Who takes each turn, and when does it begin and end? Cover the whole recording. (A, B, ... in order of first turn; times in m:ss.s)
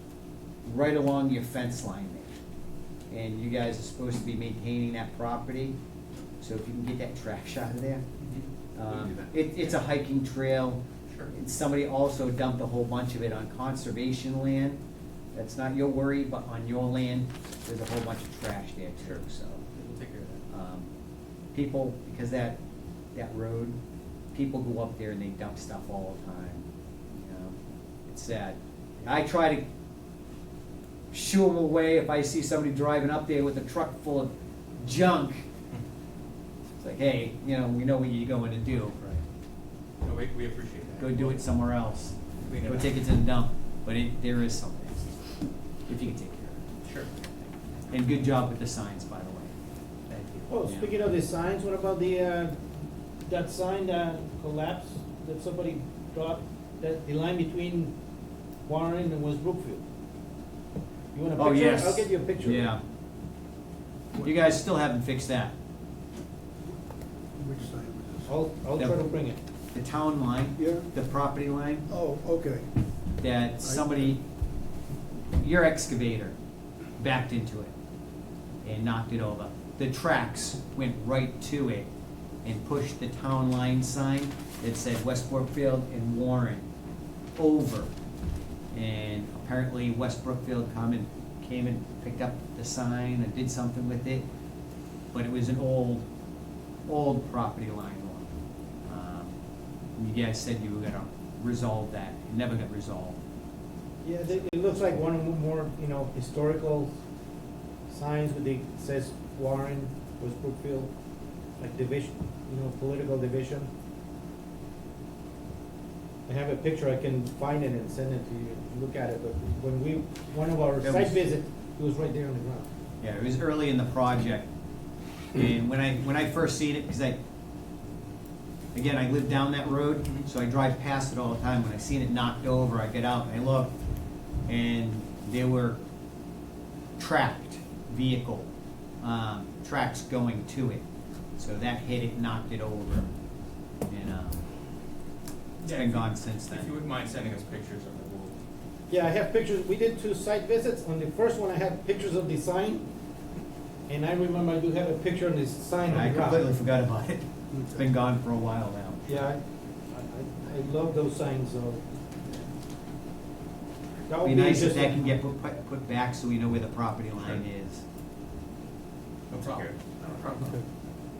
0:00.6-0:02.4 A
0:03.1-0:05.8 A
0:06.4-0:08.0 A
0:08.2-0:08.5 B
0:08.7-0:14.8 A
0:08.9-0:09.3 C
0:15.3-0:19.6 A
0:19.0-0:20.4 B
0:20.5-0:20.9 A
0:21.5-0:22.6 A
0:23.1-0:23.8 A
0:24.3-0:27.6 A
0:28.1-0:29.6 A
0:31.1-0:35.4 A
0:36.8-0:38.9 A
0:38.7-0:39.2 B
0:40.0-0:41.4 B
0:41.0-0:45.2 A
0:42.4-0:43.0 B
0:45.9-0:46.6 A
0:46.8-0:47.3 B
0:47.9-0:49.5 A
0:50.1-0:50.9 A
0:50.5-0:52.6 D
0:53.2-0:57.9 D
0:58.6-0:59.8 D
1:01.1-1:02.7 D
1:01.4-1:02.8 A
1:04.2-1:05.5 A
1:07.6-1:08.1 C
1:08.3-1:09.4 D
1:08.8-1:09.1 A
1:09.7-1:11.8 A
1:10.6-1:10.8 C
1:11.9-1:12.6 C
1:13.2-1:14.2 A
1:15.4-1:16.3 A
1:17.0-1:17.7 A
1:18.6-1:21.9 A
1:22.4-1:26.7 A
1:27.4-1:27.9 A
1:28.7-1:34.2 A
1:35.1-1:36.0 A
1:36.9-1:38.3 A
1:38.8-1:39.4 A
1:40.0-1:43.2 A
1:44.0-1:46.9 D
1:47.9-1:50.9 D
1:51.6-1:53.7 D
1:56.3-2:02.7 D
2:00.8-2:01.2 A
2:03.0-2:04.5 A
2:05.3-2:07.2 A
2:08.7-2:13.7 A
2:14.5-2:15.8 A
2:17.0-2:18.5 A
2:19.0-2:20.8 A
2:21.4-2:23.1 A
2:23.9-2:24.4 A
2:25.6-2:28.4 B
2:25.6-2:26.7 A
2:28.9-2:32.9 D
2:33.9-2:36.5 D
2:35.9-2:39.2 A
2:37.5-2:37.8 C
2:39.1-2:41.8 D
2:44.1-2:45.1 D
2:44.2-2:47.8 A
2:49.3-2:50.5 B
2:49.4-2:50.6 C